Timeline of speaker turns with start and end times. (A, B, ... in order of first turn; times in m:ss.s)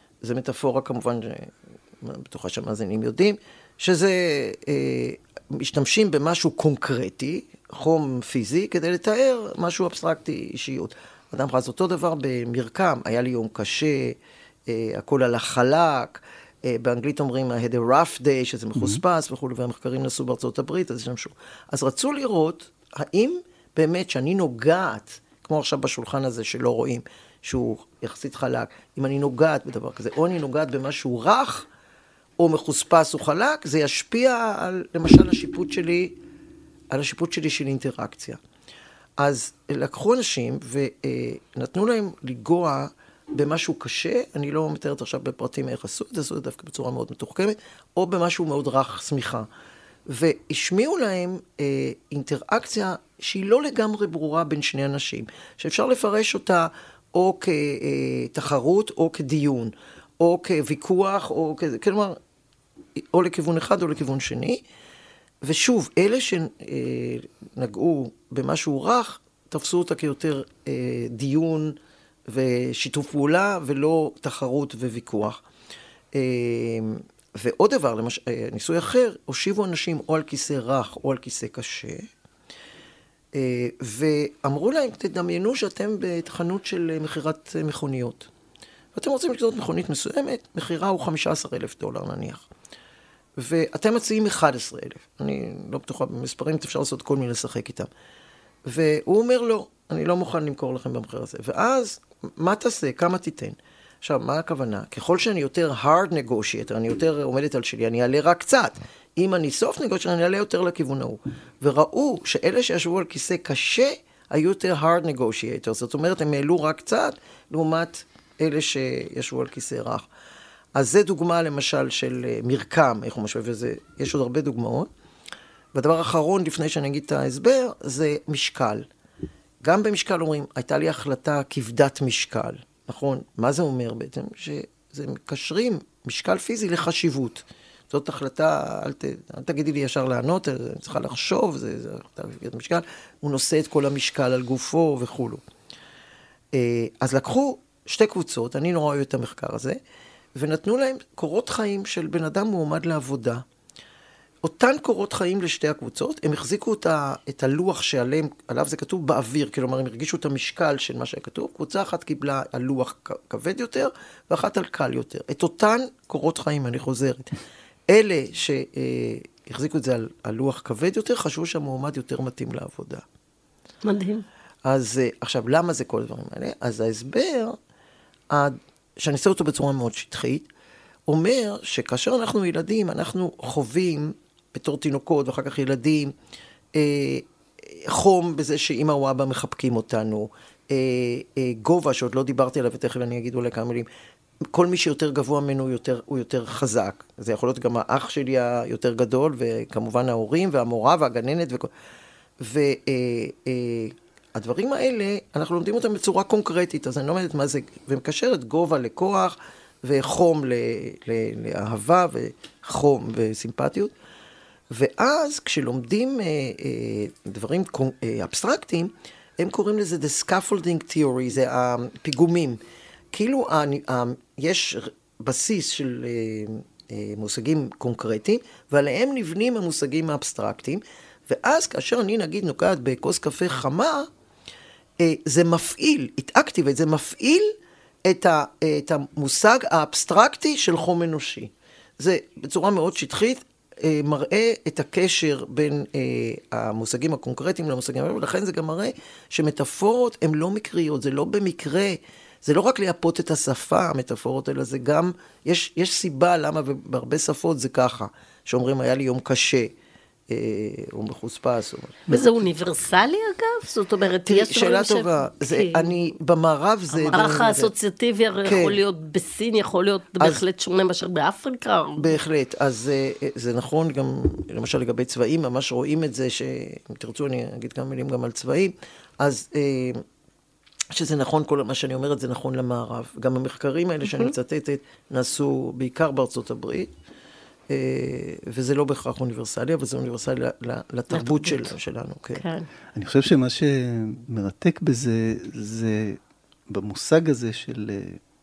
0:00.2-0:31.7 A
0:18.8-0:19.0 B
0:32.4-0:36.2 A
0:36.9-0:38.4 A
0:39.2-0:49.5 A
0:50.1-1:02.2 A
1:03.1-1:04.6 A
1:05.4-1:11.8 A
1:12.3-1:15.4 A
1:16.1-1:22.1 A
1:23.3-1:28.3 A
1:28.9-1:32.4 A
1:33.4-1:37.9 A
1:38.7-2:00.0 A
2:00.7-2:04.9 A
2:05.7-2:08.8 A
2:09.6-2:25.4 A
2:26.5-2:29.8 A
2:30.4-2:33.4 A
2:34.4-2:47.3 A
2:47.9-2:53.0 A
2:53.8-2:54.2 C
2:54.6-2:57.6 A
2:58.3-3:00.5 A
3:01.1-3:06.1 A
3:06.7-3:13.9 A
3:14.5-3:21.7 A
3:22.4-3:33.9 A
3:34.7-3:42.6 A
3:43.1-3:54.1 A
3:55.0-3:57.5 A
3:58.0-4:19.7 A
4:20.3-4:22.2 A
4:22.1-4:26.0 C
4:24.2-4:27.7 A
4:26.9-4:32.2 C
4:28.4-4:28.8 A
4:32.0-4:40.0 A
4:40.9-4:46.9 A
4:44.1-4:44.3 C
4:47.7-4:52.4 A
4:51.1-4:51.7 C
4:52.4-4:52.7 C
4:52.9-4:56.2 B
4:56.7-4:58.2 B